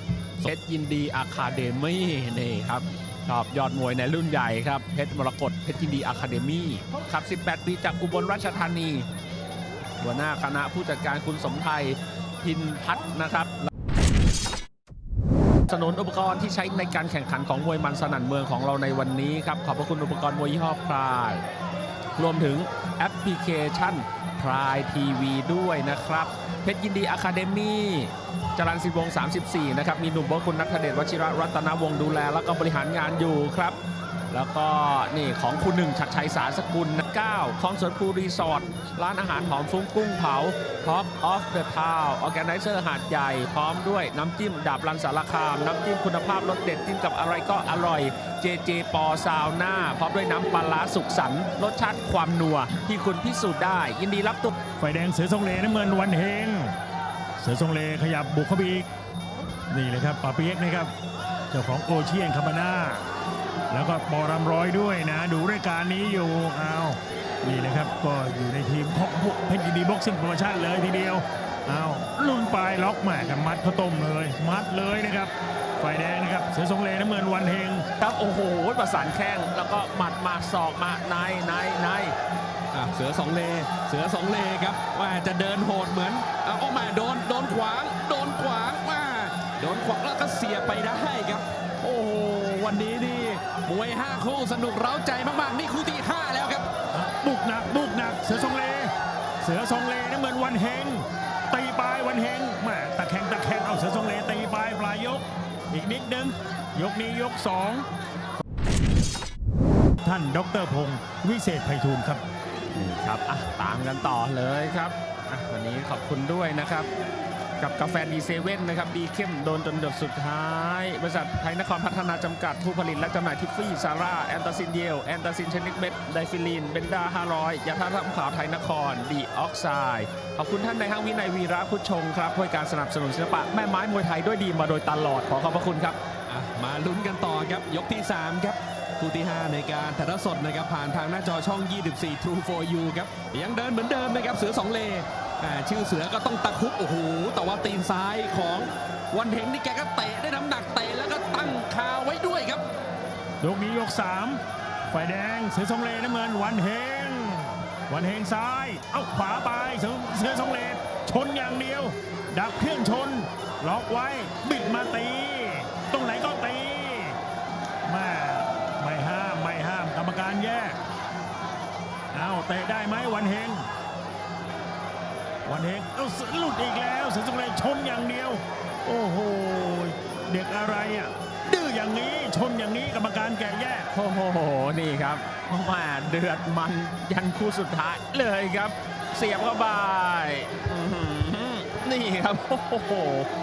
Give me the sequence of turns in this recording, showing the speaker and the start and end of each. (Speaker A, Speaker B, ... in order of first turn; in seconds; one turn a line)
Speaker A: 0.4-9.1
Speaker A: 10.0-13.7
Speaker A: 15.7-21.4
Speaker A: 22.1-33.8
Speaker A: 34.3-54.5
Speaker B: 54.8-56.7
Speaker B: 57.4-58.9
Speaker B: 59.7-60.9
Speaker B: 61.5-63.0
Speaker B: 63.7-77.8
Speaker A: 78.0-82.1
Speaker C: 82.7-96.7
Speaker B: 96.9-107.8
Speaker B: 110.0-112.2
Speaker A: 112.7-116.9
Speaker A: 117.6-136.0
Speaker C: 136.3-152.7
Speaker B: 153.4-167.2
Speaker B: 167.8-170.8
Speaker B: 172.1-173.7
Speaker B: 175.4-183.9
Speaker A: 183.9-193.3